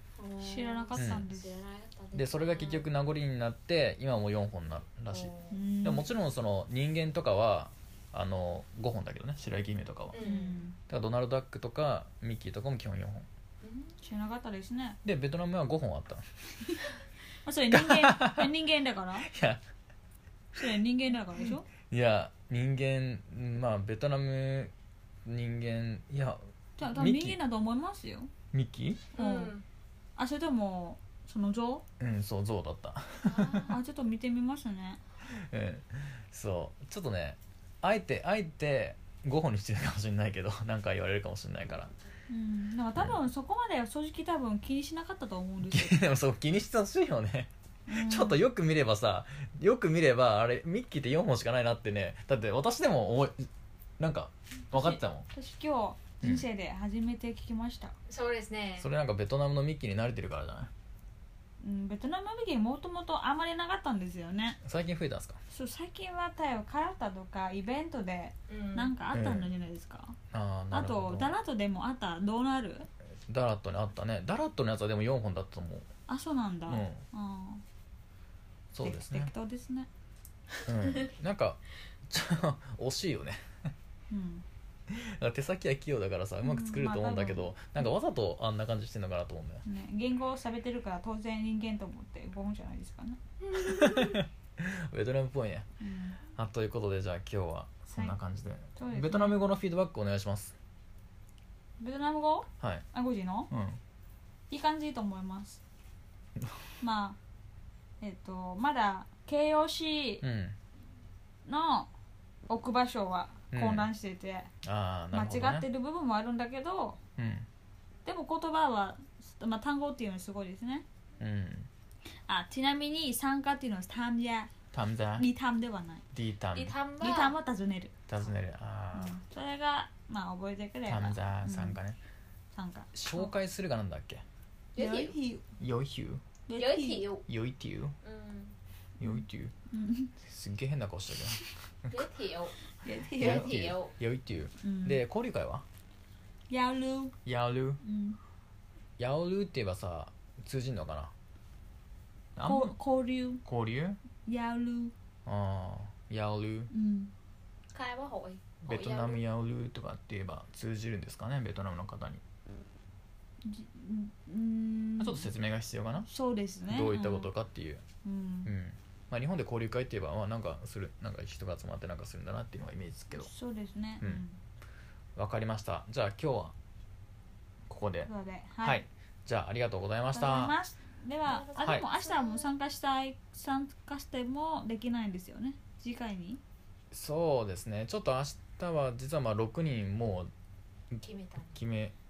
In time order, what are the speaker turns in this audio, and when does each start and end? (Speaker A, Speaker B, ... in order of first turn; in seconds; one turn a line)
Speaker A: 0.2-2.9
Speaker B: 0.4-1.6
Speaker C: 0.9-1.3
Speaker C: 2.1-10.2
Speaker A: 5.1-5.5
Speaker B: 5.5-6.1
Speaker A: 10.1-10.7
Speaker B: 10.2-10.8
Speaker C: 10.9-13.3
Speaker A: 13.6-13.9
Speaker B: 14.0-15.0
Speaker C: 15.1-16.2
Speaker B: 17.4-19.3
Speaker C: 17.7-18.5
Speaker C: 19.2-19.6
Speaker B: 20.6-21.6
Speaker C: 21.9-24.7
Speaker C: 25.3-27.4
Speaker B: 26.8-28.3
Speaker C: 28.5-29.1
Speaker A: 29.1-29.6
Speaker B: 29.2-29.5
Speaker B: 30.2-31.8
Speaker C: 32.0-33.5
Speaker A: 33.2-33.8
Speaker B: 33.6-35.0
Speaker C: 35.3-41.9
Speaker B: 42.3-46.0
Speaker C: 45.6-53.5
Speaker B: 47.9-48.4
Speaker C: 54.0-55.3
Speaker B: 54.7-57.9
Speaker C: 56.2-56.5
Speaker A: 58.1-58.9
Speaker C: 58.8-60.7
Speaker B: 61.6-64.6
Speaker C: 64.6-65.4
Speaker B: 65.5-70.2
Speaker A: 68.5-68.9
Speaker C: 69.1-69.5
Speaker C: 70.3-71.3
Speaker B: 70.7-72.9
Speaker C: 73.3-75.9
Speaker B: 76.1-77.6
Speaker C: 76.7-77.0
Speaker C: 78.7-79.3
Speaker B: 78.8-79.9
Speaker C: 80.7-83.4
Speaker B: 84.1-84.5
Speaker C: 84.9-89.7
Speaker B: 86.4-87.5
Speaker B: 89.7-93.2
Speaker C: 93.5-95.7
Speaker A: 93.7-94.2
Speaker B: 95.8-96.2
Speaker C: 96.4-100.6
Speaker B: 97.9-98.2
Speaker B: 98.8-99.4
Speaker B: 101.8-103.5
Speaker C: 102.6-102.8
Speaker C: 103.5-103.8
Speaker B: 104.5-105.6
Speaker B: 106.8-107.2
Speaker B: 108.0-110.2
Speaker C: 110.2-110.6
Speaker B: 111.5-111.9
Speaker B: 112.5-114.5
Speaker C: 113.5-113.9
Speaker C: 114.6-115.7
Speaker B: 115.1-117.0
Speaker C: 117.2-117.5
Speaker B: 118.0-120.8
Speaker C: 121.2-121.7
Speaker B: 122.2-124.5
Speaker C: 124.7-125.3
Speaker B: 125.2-126.0
Speaker C: 126.1-126.8
Speaker A: 126.5-127.4
Speaker B: 127.0-127.9
Speaker C: 128.1-129.2
Speaker B: 128.9-131.8
Speaker C: 130.9-132.0
Speaker B: 132.5-133.3
Speaker C: 132.9-134.2
Speaker A: 134.8-135.2
Speaker B: 134.8-135.4
Speaker C: 135.6-136.2
Speaker B: 136.5-137.1
Speaker A: 136.6-137.2
Speaker C: 137.3-138.0
Speaker A: 138.0-138.5
Speaker C: 139.0-139.5
Speaker B: 139.1-140.1
Speaker C: 140.2-142.1
Speaker A: 141.9-142.5
Speaker B: 142.8-143.6
Speaker A: 143.1-144.0
Speaker C: 143.2-145.7
Speaker B: 144.6-145.0
Speaker B: 146.5-147.2
Speaker C: 147.2-147.8
Speaker B: 147.8-148.2
Speaker C: 149.0-151.1
Speaker C: 152.4-152.8
Speaker B: 152.4-153.4
Speaker C: 153.4-154.0
Speaker B: 154.3-154.9
Speaker C: 155.3-156.7
Speaker B: 156.7-157.1
Speaker A: 157.7-159.2
Speaker C: 158.7-162.2
Speaker B: 163.4-165.3
Speaker C: 165.0-166.1
Speaker B: 166.1-167.3
Speaker C: 166.7-167.8
Speaker B: 168.0-168.5
Speaker C: 168.5-173.3
Speaker B: 173.1-174.4
Speaker C: 175.2-176.5
Speaker C: 177.7-180.6
Speaker B: 178.1-178.8
Speaker B: 180.1-186.4
Speaker A: 181.3-182.5
Speaker C: 186.9-190.3
Speaker A: 191.0-191.6
Speaker C: 191.6-191.9